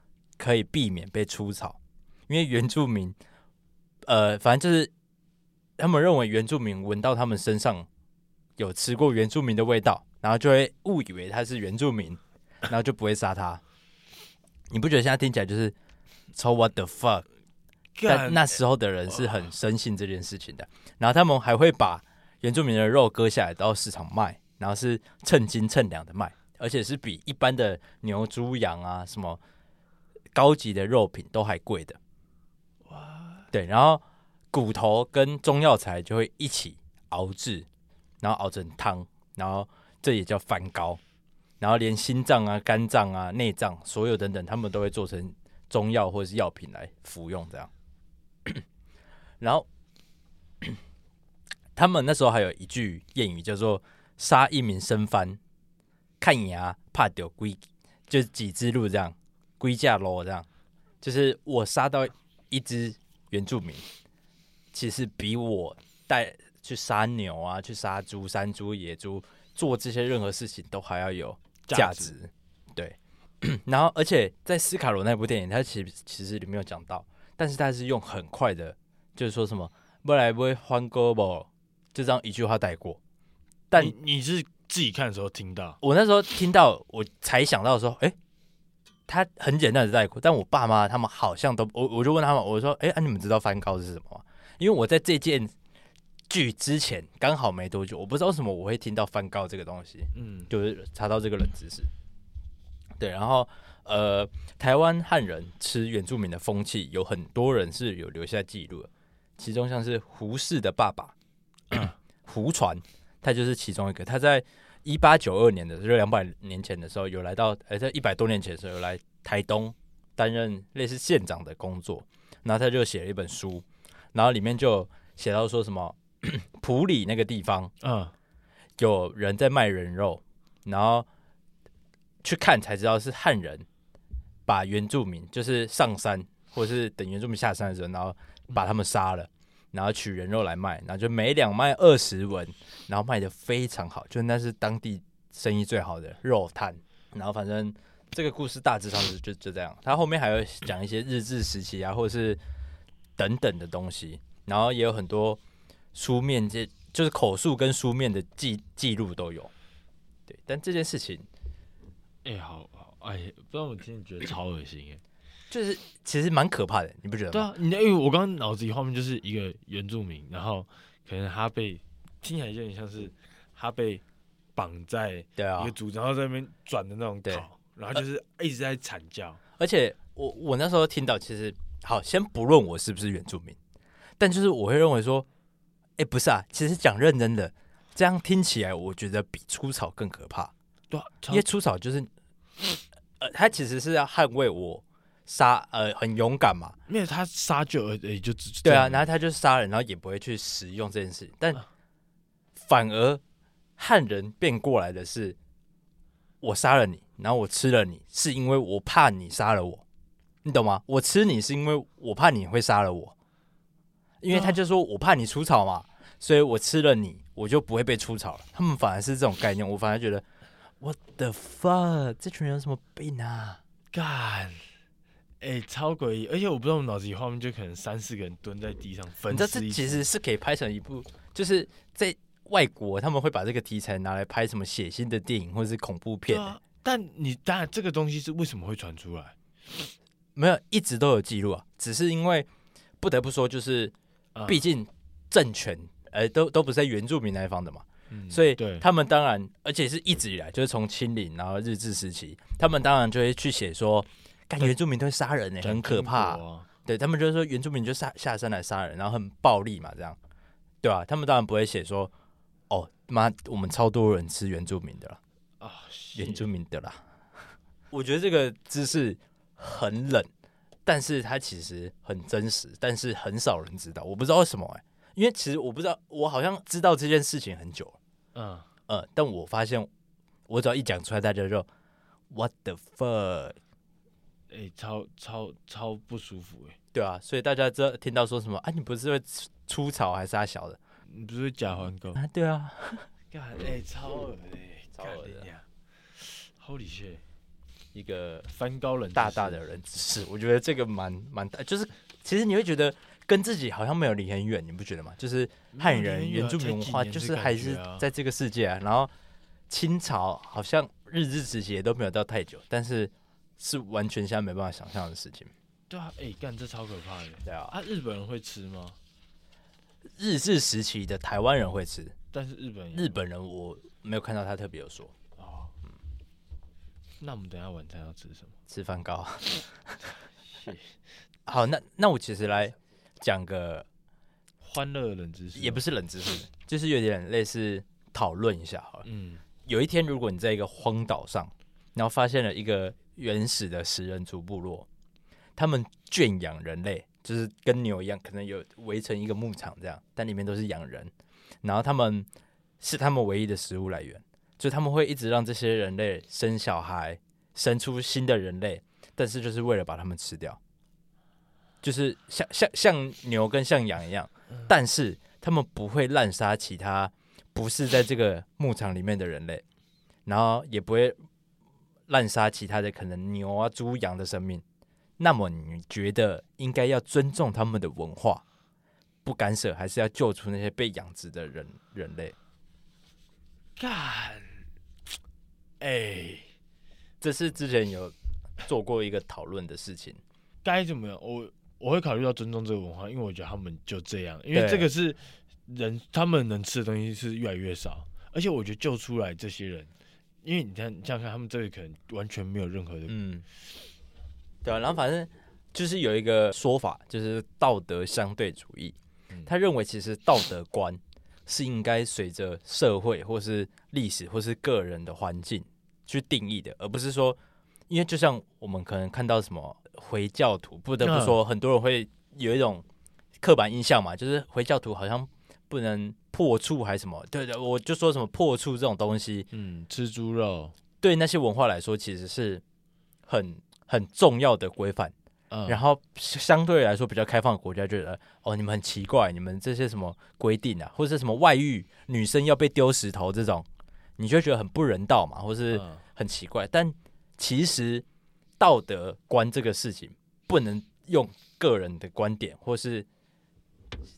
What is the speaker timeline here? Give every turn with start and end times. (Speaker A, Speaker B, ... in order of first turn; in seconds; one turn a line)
Speaker A: 0.4-3.2
Speaker A: 4.1-4.9
Speaker A: 5.8-7.9
Speaker A: 8.6-13.6
Speaker A: 14.7-15.8
Speaker A: 16.4-17.2
Speaker B: 18.0-18.6
Speaker A: 18.1-29.4
Speaker B: 19.1-19.5
Speaker A: 30.4-32.0
Speaker B: 32.9-33.5
Speaker A: 33.5-37.7
Speaker A: 38.2-41.0
Speaker A: 41.6-47.7
Speaker A: 49.4-49.7
Speaker A: 51.8-55.4
Speaker A: 56.2-60.5
Speaker A: 61.0-63.9
Speaker A: 64.7-83.0
Speaker B: 71.7-72.1
Speaker A: 83.7-84.0
Speaker B: 83.8-85.8
Speaker A: 85.8-88.2
Speaker A: 89.1-95.5
Speaker A: 96.3-101.9
Speaker B: 100.1-100.5
Speaker A: 103.0-111.1
Speaker A: 112.2-127.7
Speaker B: 127.8-128.1
Speaker A: 128.8-131.1
Speaker A: 132.2-133.7
Speaker A: 134.5-152.4
Speaker A: 153.2-155.4
Speaker A: 155.9-159.5
Speaker A: 160.3-161.2
Speaker B: 162.2-165.0
Speaker A: 165.5-167.5
Speaker B: 167.3-174.0
Speaker B: 174.6-179.4
Speaker A: 175.4-175.7
Speaker A: 179.6-183.6
Speaker A: 184.2-185.3
Speaker A: 186.0-190.5
Speaker B: 190.9-191.4
Speaker A: 191.3-192.1
Speaker A: 193.2-196.8
Speaker B: 196.9-199.1
Speaker A: 198.6-201.6
Speaker A: 202.6-203.2
Speaker A: 203.8-205.4
Speaker A: 206.4-209.8
Speaker A: 210.4-213.1
Speaker A: 214.2-220.2
Speaker B: 214.3-214.6
Speaker A: 220.8-223.6
Speaker B: 223.9-224.7
Speaker B: 225.4-230.1
Speaker A: 229.3-236.5
Speaker B: 236.3-239.3
Speaker A: 240.4-242.5
Speaker A: 243.0-243.9
Speaker B: 244.3-244.6
Speaker A: 244.5-260.2
Speaker B: 248.1-248.9
Speaker B: 255.6-256.7
Speaker A: 260.8-262.1
Speaker A: 262.7-265.2
Speaker B: 265.6-266.5
Speaker A: 266.1-267.0
Speaker A: 267.9-270.3
Speaker A: 270.9-278.0
Speaker B: 278.4-278.7
Speaker A: 278.9-279.9
Speaker A: 280.5-281.7
Speaker A: 282.3-283.6
Speaker B: 284.5-286.8
Speaker A: 286.9-290.8
Speaker B: 291.1-292.2
Speaker A: 292.1-293.1
Speaker B: 293.3-297.2
Speaker A: 294.9-295.5
Speaker A: 297.9-298.5
Speaker B: 298.5-299.6
Speaker A: 299.1-309.1
Speaker B: 305.7-308.1
Speaker A: 309.7-315.5
Speaker B: 315.9-319.0
Speaker A: 317.4-317.7
Speaker A: 320.2-322.1
Speaker B: 322.3-323.2
Speaker A: 322.9-325.1
Speaker B: 325.4-325.7
Speaker B: 327.2-328.5
Speaker A: 328.7-329.9
Speaker B: 330.5-331.0
Speaker A: 331.5-333.9
Speaker B: 334.6-335.8
Speaker A: 335.6-339.1
Speaker B: 339.0-339.4
Speaker A: 339.7-344.9
Speaker A: 345.6-351.1
Speaker A: 351.6-352.3
Speaker A: 352.8-360.6
Speaker A: 361.8-369.6
Speaker A: 370.3-371.2
Speaker A: 372.1-374.6
Speaker A: 375.2-378.4
Speaker A: 379.2-382.4
Speaker B: 383.8-384.6
Speaker B: 385.8-386.5
Speaker A: 387.2-390.2
Speaker B: 390.6-399.9
Speaker A: 394.5-394.9
Speaker B: 400.4-403.1
Speaker A: 403.1-403.4
Speaker A: 404.6-417.4
Speaker A: 417.9-422.9
Speaker B: 421.0-421.4
Speaker A: 423.4-429.5
Speaker B: 429.5-430.8
Speaker A: 431.0-432.6
Speaker A: 433.3-435.1
Speaker B: 435.5-435.8
Speaker A: 435.7-443.7
Speaker A: 444.2-448.1
Speaker B: 445.7-446.0
Speaker A: 448.6-453.1